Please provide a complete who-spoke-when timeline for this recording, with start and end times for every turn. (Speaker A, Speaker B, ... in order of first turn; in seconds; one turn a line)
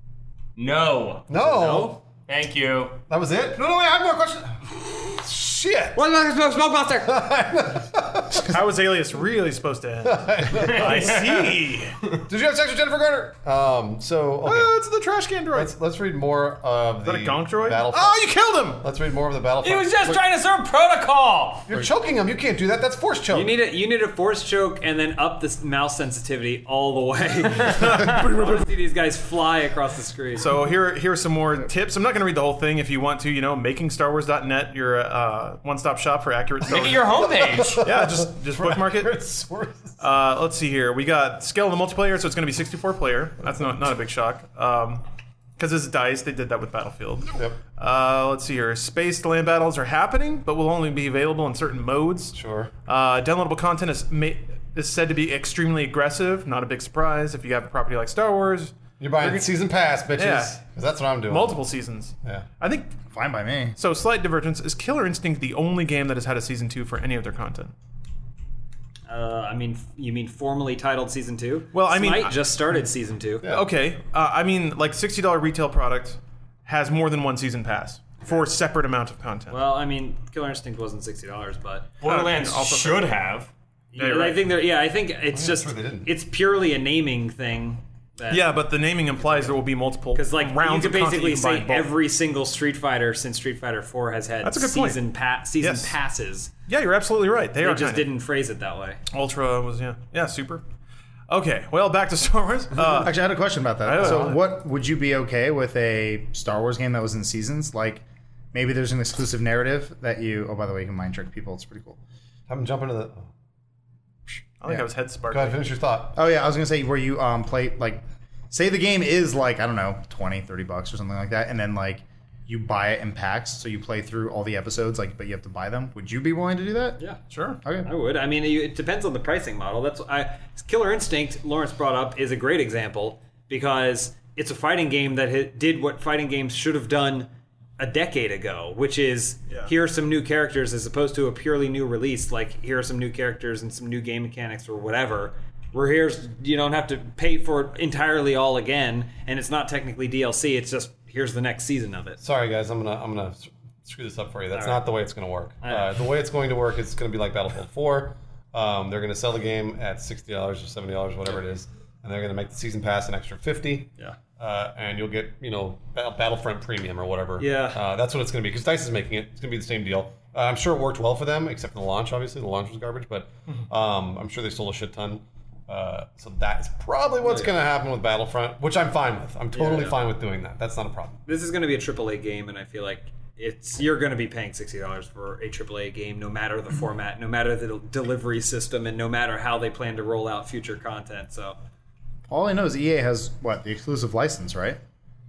Speaker A: 0.6-3.0
Speaker B: 1.3-2.0
Speaker C: 1.4-2.0
Speaker B: 3.1-6.0
Speaker C: 5.9-7.2
Speaker B: 7.0-8.6
Speaker D: 8.3-12.0
Speaker B: 10.0-11.4
Speaker A: 10.5-11.6
Speaker B: 12.2-14.7
Speaker D: 14.4-15.7
Speaker B: 15.5-18.2
Speaker D: 17.0-18.8
Speaker B: 18.8-20.2
Speaker A: 19.6-21.7
Speaker B: 21.7-23.6
Speaker C: 23.3-30.5
Speaker D: 27.8-28.6
Speaker D: 30.4-39.1
Speaker A: 36.6-37.8
Speaker B: 37.2-40.0
Speaker D: 40.0-45.0
Speaker D: 45.6-59.5
Speaker B: 52.3-52.7
Speaker B: 59.0-61.6
Speaker D: 60.1-60.6
Speaker D: 61.3-63.0
Speaker E: 63.1-63.8
Speaker D: 63.8-67.7
Speaker C: 69.1-73.4
Speaker D: 71.7-72.4
Speaker D: 73.4-79.6
Speaker C: 79.5-81.9
Speaker A: 82.0-83.5
Speaker D: 82.0-83.2
Speaker C: 83.9-88.5
Speaker D: 84.0-84.5
Speaker B: 85.3-86.1
Speaker D: 88.3-91.9
Speaker C: 89.2-89.5
Speaker C: 90.1-96.5
Speaker D: 94.4-95.0
Speaker D: 95.6-96.0
Speaker D: 96.7-98.1
Speaker C: 97.6-99.0
Speaker D: 99.1-100.6
Speaker D: 101.3-103.2
Speaker E: 102.9-112.0
Speaker D: 103.8-104.4
Speaker B: 104.0-104.3
Speaker B: 112.5-113.3
Speaker D: 114.6-115.6
Speaker B: 115.3-116.2
Speaker E: 116.1-127.0
Speaker D: 127.3-127.6
Speaker E: 127.6-127.9
Speaker C: 127.8-152.2
Speaker B: 152.2-181.2
Speaker C: 154.5-154.8
Speaker C: 155.6-155.9
Speaker C: 167.4-167.8
Speaker C: 177.2-177.5
Speaker C: 179.5-180.0
Speaker C: 181.3-191.6
Speaker E: 192.3-194.8